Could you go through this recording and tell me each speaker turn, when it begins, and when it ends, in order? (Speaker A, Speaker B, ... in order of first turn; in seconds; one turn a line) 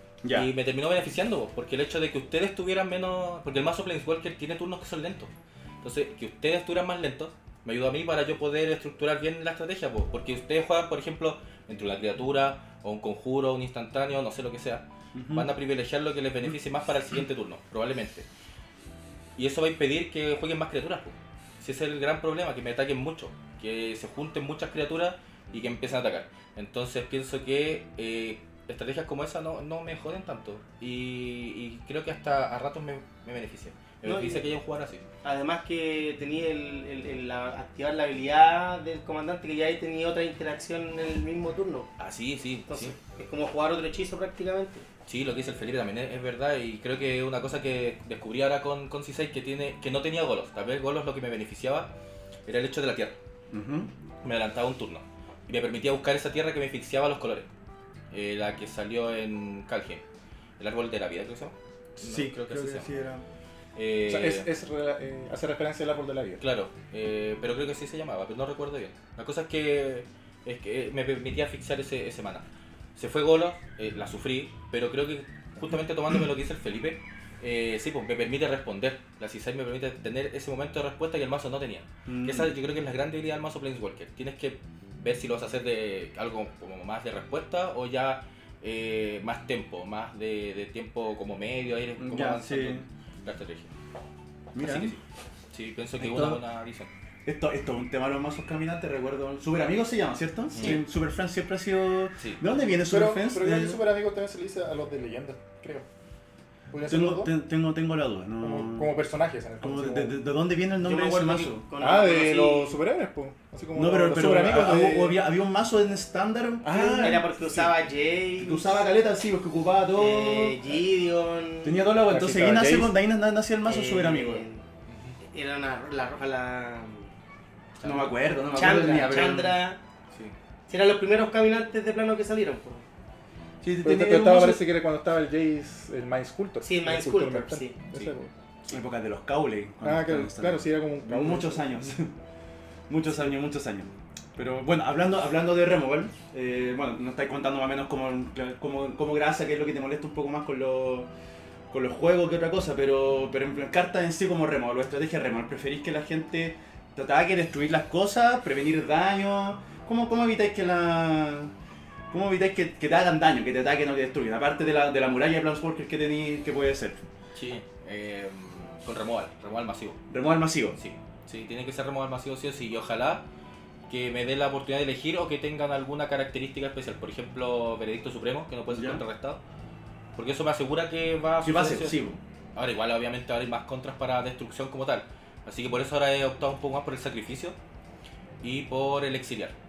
Speaker A: 0.2-0.5
Speaker B: 0.3-5.3
Speaker B: 5.8-18.3
Speaker A: 15.1-15.5
Speaker B: 19.4-35.0
Speaker C: 34.0-34.5
Speaker C: 35.2-41.9
Speaker B: 42.0-43.0
Speaker C: 42.7-44.9
Speaker B: 45.1-51.9
Speaker B: 52.5-53.2
Speaker A: 53.5-53.9
Speaker B: 54.2-57.5
Speaker B: 58.1-60.0
Speaker B: 60.6-62.9
Speaker A: 62.0-63.2
Speaker B: 63.8-64.5
Speaker D: 64.1-66.4
Speaker B: 66.4-72.5
Speaker B: 73.0-93.7
Speaker A: 82.1-82.5
Speaker A: 92.0-92.9
Speaker A: 94.5-95.0
Speaker B: 94.6-95.0
Speaker B: 95.5-96.9
Speaker A: 96.0-96.4
Speaker A: 97.2-103.8
Speaker B: 100.5-100.8
Speaker D: 102.9-105.9
Speaker D: 106.7-107.3
Speaker A: 106.9-108.9
Speaker D: 108.4-110.2
Speaker A: 109.6-111.7
Speaker C: 110.8-112.8
Speaker D: 111.8-115.2
Speaker A: 113.7-117.7
Speaker D: 116.6-117.2
Speaker C: 116.7-118.8
Speaker A: 118.4-120.8
Speaker C: 119.9-121.8
Speaker A: 121.6-124.5
Speaker D: 122.1-123.0
Speaker C: 123.7-124.6
Speaker B: 124.9-125.2
Speaker C: 125.2-127.1
Speaker B: 127.8-128.1
Speaker A: 127.8-129.6
Speaker C: 128.5-129.8
Speaker C: 130.7-132.9
Speaker A: 133.6-134.7
Speaker D: 133.8-138.3
Speaker C: 136.6-137.8
Speaker A: 138.7-142.1
Speaker D: 139.8-141.8
Speaker A: 142.9-151.1
Speaker A: 151.7-161.5
Speaker A: 162.1-167.0
Speaker B: 167.3-170.0
Speaker A: 170.1-170.8
Speaker B: 170.8-173.2
Speaker B: 173.9-179.4
Speaker A: 178.7-179.0
Speaker B: 180.2-182.0
Speaker A: 181.4-182.2
Speaker B: 182.6-187.6
Speaker B: 188.4-189.5